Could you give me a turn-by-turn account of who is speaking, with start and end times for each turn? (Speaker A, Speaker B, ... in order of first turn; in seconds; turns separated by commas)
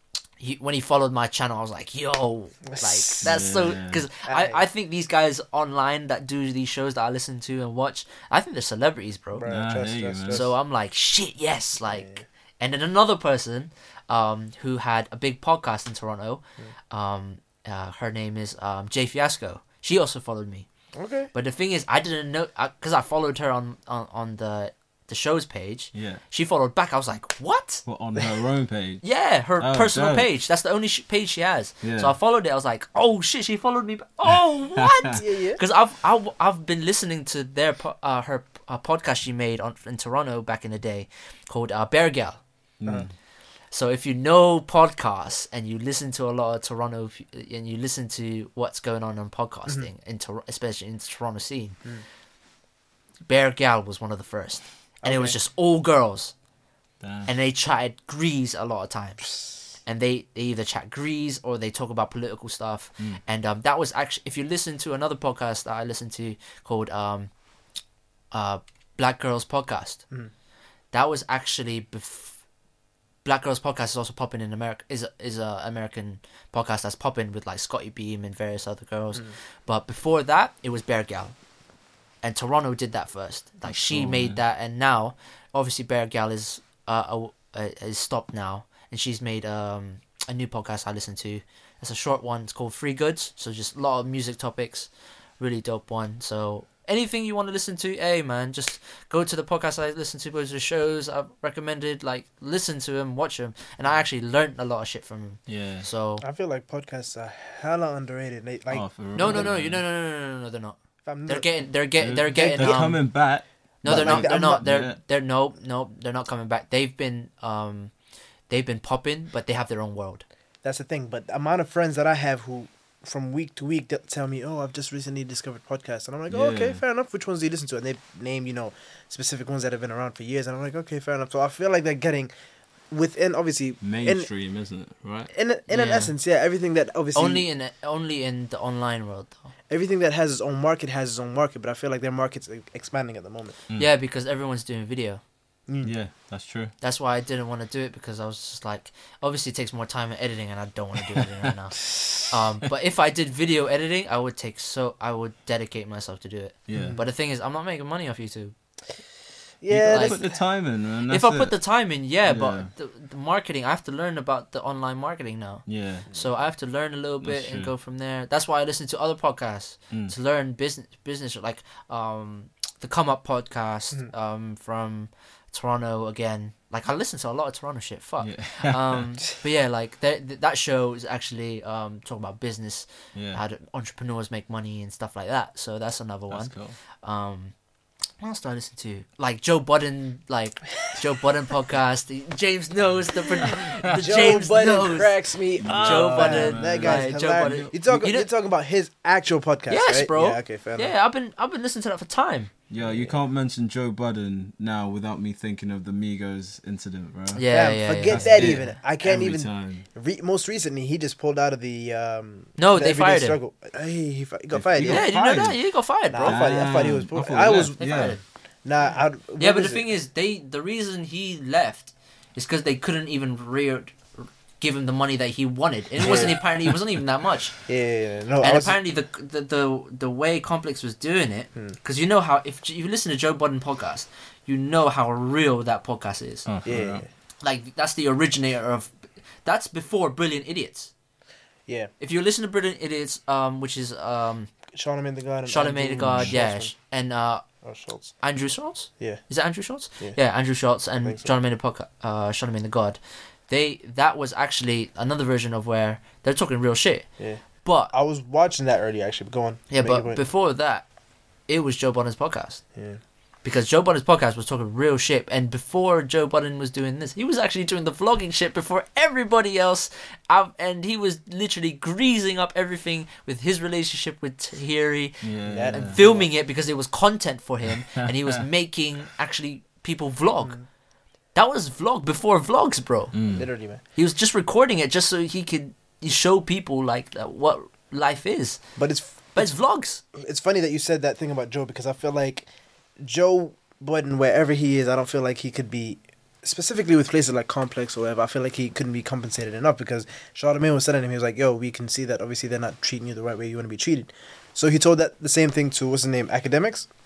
Speaker A: 0.4-9.5, Speaker B: 2.7-3.6, Speaker C: 3.2-4.0, Speaker B: 4.2-4.6, Speaker B: 9.3-10.5, Speaker C: 9.5-10.4, Speaker A: 10.3-20.7, Speaker B: 11.8-12.2, Speaker B: 20.9-21.3, Speaker A: 21.3-27.8, Speaker C: 25.9-26.2, Speaker C: 27.9-29.0, Speaker A: 29.0-42.4, Speaker C: 29.6-30.3, Speaker C: 31.8-32.1, Speaker C: 34.8-35.1, Speaker B: 35.1-35.6, Speaker C: 42.8-43.1, Speaker A: 43.7-51.8, Speaker A: 53.3-56.3, Speaker B: 55.0-55.4, Speaker C: 57.0-57.3, Speaker A: 57.3-59.3, Speaker A: 59.8-67.3, Speaker A: 68.3-70.0, Speaker A: 70.9-72.4, Speaker A: 73.2-81.3, Speaker A: 82.2-106.2, Speaker C: 83.7-84.4, Speaker C: 105.5-105.9, Speaker B: 106.2-109.5, Speaker C: 108.7-109.8, Speaker A: 109.1-113.0, Speaker B: 111.0-111.7, Speaker C: 112.0-115.0, Speaker B: 112.3-113.0, Speaker A: 113.8-117.9, Speaker B: 113.8-114.6, Speaker A: 118.5-120.2, Speaker B: 120.6-132.3, Speaker C: 126.3-126.8, Speaker B: 132.9-134.3, Speaker C: 133.8-135.3, Speaker B: 135.3-137.5, Speaker A: 135.7-136.1, Speaker A: 137.1-139.5, Speaker B: 139.7-143.6, Speaker A: 143.7-145.2, Speaker B: 145.7-145.9, Speaker C: 145.8-146.7, Speaker A: 146.8-158.5, Speaker C: 156.7-157.0, Speaker B: 156.7-157.0, Speaker B: 159.6-160.3, Speaker C: 159.7-161.6, Speaker A: 159.9-160.2, Speaker A: 161.1-187.5, Speaker C: 162.2-162.7, Speaker C: 165.7-166.1, Speaker C: 167.2-167.7, Speaker C: 178.2-179.1, Speaker C: 183.1-183.4, Speaker C: 186.3-186.8, Speaker A: 188.2-198.3, Speaker B: 193.9-200.9, Speaker C: 195.6-197.7, Speaker A: 199.7-202.5, Speaker C: 202.7-207.4, Speaker B: 202.8-203.2, Speaker A: 207.3-208.8, Speaker B: 207.5-215.1, Speaker C: 208.1-209.8, Speaker A: 212.6-213.4, Speaker C: 214.5-215.6, Speaker A: 214.8-216.4, Speaker B: 216.1-219.9, Speaker C: 216.2-218.2, Speaker A: 217.8-218.2, Speaker A: 219.4-227.5, Speaker B: 226.0-226.4, Speaker C: 226.0-226.7, Speaker B: 227.7-228.8, Speaker A: 228.4-236.5, Speaker C: 236.4-237.0, Speaker B: 236.6-237.1, Speaker A: 237.4-238.9, Speaker A: 239.4-240.9, Speaker A: 242.0-244.5, Speaker B: 244.7-246.7, Speaker A: 245.4-247.4, Speaker C: 246.1-246.3, Speaker B: 247.6-248.1, Speaker A: 248.2-257.1, Speaker B: 251.0-251.3, Speaker B: 257.2-260.2, Speaker A: 257.6-257.9, Speaker A: 259.7-260.9, Speaker A: 261.5-262.6, Speaker A: 263.4-280.6, Speaker C: 275.2-276.0, Speaker B: 275.4-276.3, Speaker A: 281.3-283.1, Speaker C: 283.1-283.5, Speaker B: 283.3-283.8, Speaker A: 283.9-288.6, Speaker B: 288.8-289.5, Speaker A: 289.3-290.0, Speaker B: 290.1-306.9